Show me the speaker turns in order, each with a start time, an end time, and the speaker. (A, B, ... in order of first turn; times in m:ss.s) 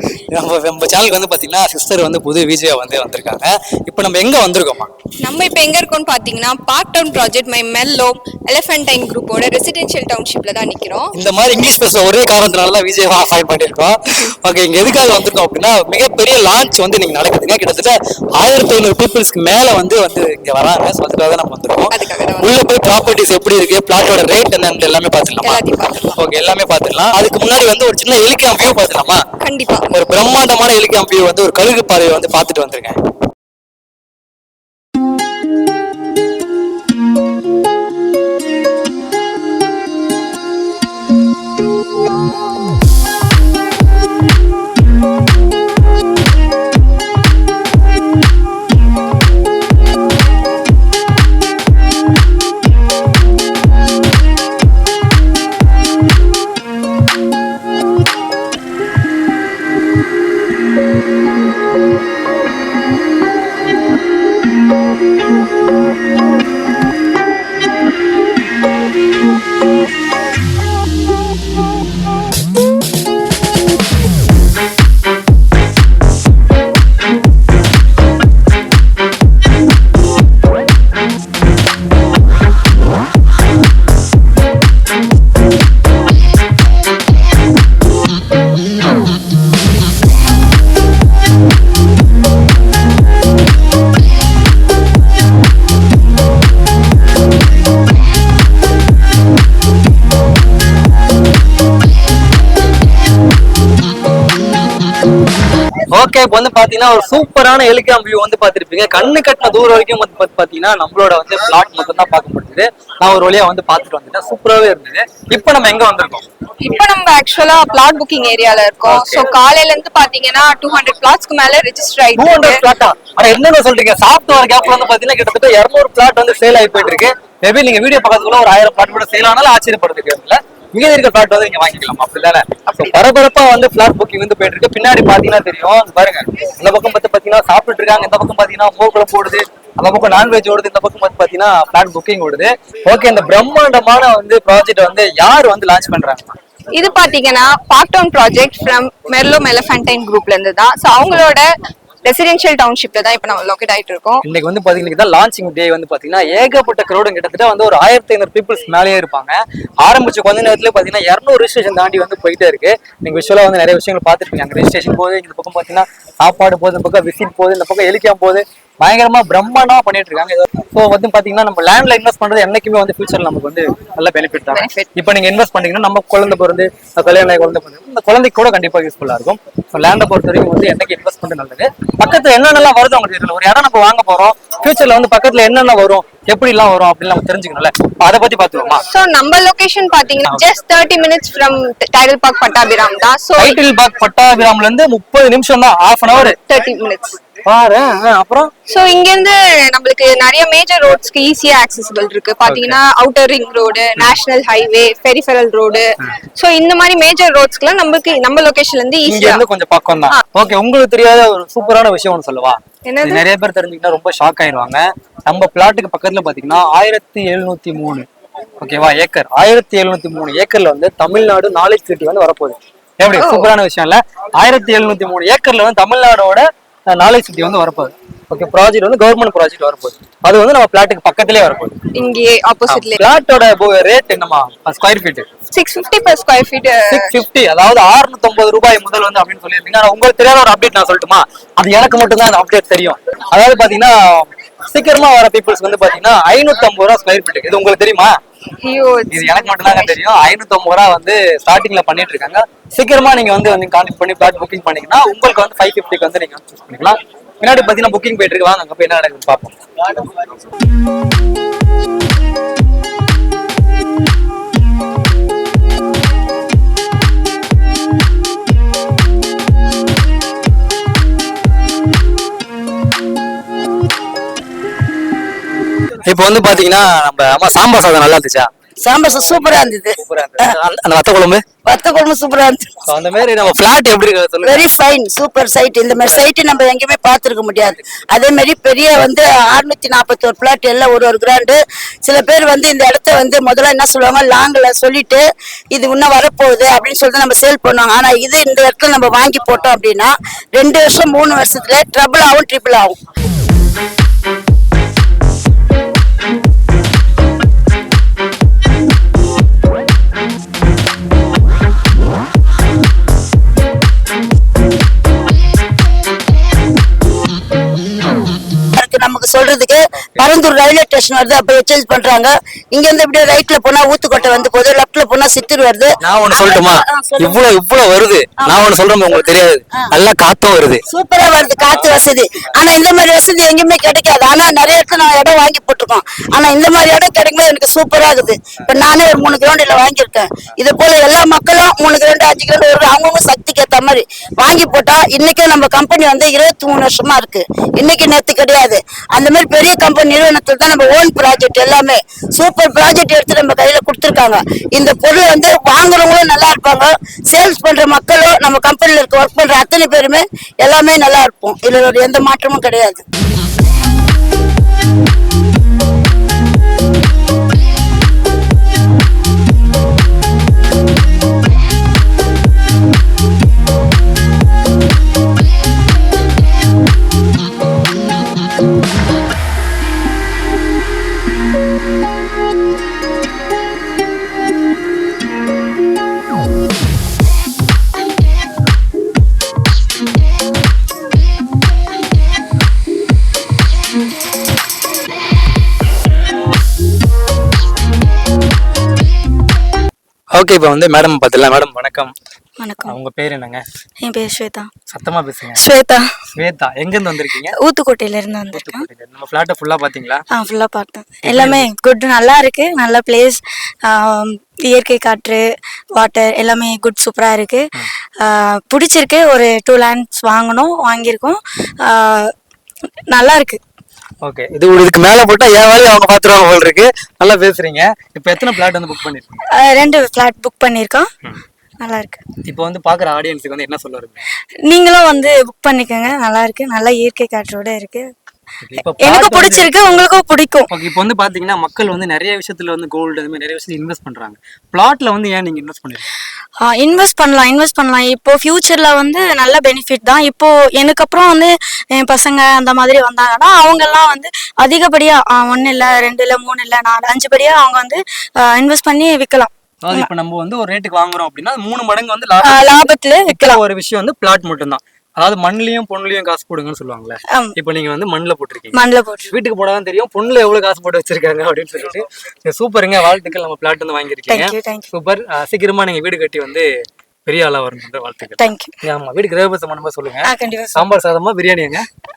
0:00.3-0:04.9 A
0:05.2-0:11.1 B
0:11.1-0:25.6 A
0:21.9-0:22.6 B
0:25.4-0:26.2 B
0:26.2-0:29.2 A
0:29.4-0:29.9 B
0:29.9-0:33.0 A
1:45.9-1:56.2 A
1:56.6-2:02.6 B
1:58.8-1:59.3 A
2:02.2-2:26.3 A
2:26.7-2:31.5 B
2:32.0-2:34.2 B
2:34.2-3:08.8 A
2:54.5-2:54.9 B
3:08.9-3:13.6 B
3:13.4-3:16.4 A
3:16.2-3:17.2 B
3:17.4-3:18.5 A
3:18.7-3:29.4 B
3:22.4-3:22.8 A
3:29.0-3:38.1 A
3:32.8-3:33.2 B
3:38.6-3:51.8 A
3:43.1-3:43.5 B
3:51.9-3:53.1 B
3:52.7-3:55.3 A
3:55.5-3:57.2 B
3:56.9-4:08.2 A
4:08.6-4:09.9 B
4:09.1-4:20.0 A
4:36.0-4:38.5 A
4:38.8-4:40.6 C
4:39.1-4:41.4 A
4:41.6-4:42.8 C
4:42.9-4:44.7 A
4:44.4-5:03.0 C
4:46.0-4:46.3 A
5:18.8-5:27.4 C
5:26.0-5:30.8 A
5:28.4-5:28.7 C
5:30.9-6:03.0 C
5:38.6-5:38.8 A
6:40.3-6:42.1 A
6:42.6-6:43.0 D
6:42.8-6:43.6 A
6:44.0-6:44.7 D
6:44.9-6:45.6 A
6:45.5-6:46.0 D
6:46.3-6:47.5 A
6:47.5-6:48.9 D
6:48.5-6:50.2 A
6:50.3-6:57.6 D
6:51.2-6:51.7 A
6:58.2-7:02.3 D
7:03.1-7:03.6 D
7:04.2-7:09.4 A
7:09.5-7:11.1 D
7:11.8-7:12.2 D
7:12.4-7:14.2 A
7:14.6-7:18.1 D
7:18.6-7:20.0 A
7:19.0-7:20.7 D
7:20.7-7:26.1 A
7:26.6-7:40.1 D
7:39.8-7:42.7 A
7:42.4-7:43.6 D
7:43.2-7:56.7 A
7:47.3-7:47.5 D
7:48.7-7:49.3 D
7:54.3-7:54.8 D
7:57.2-8:01.8 A
7:58.4-7:58.7 D
8:00.2-8:00.9 D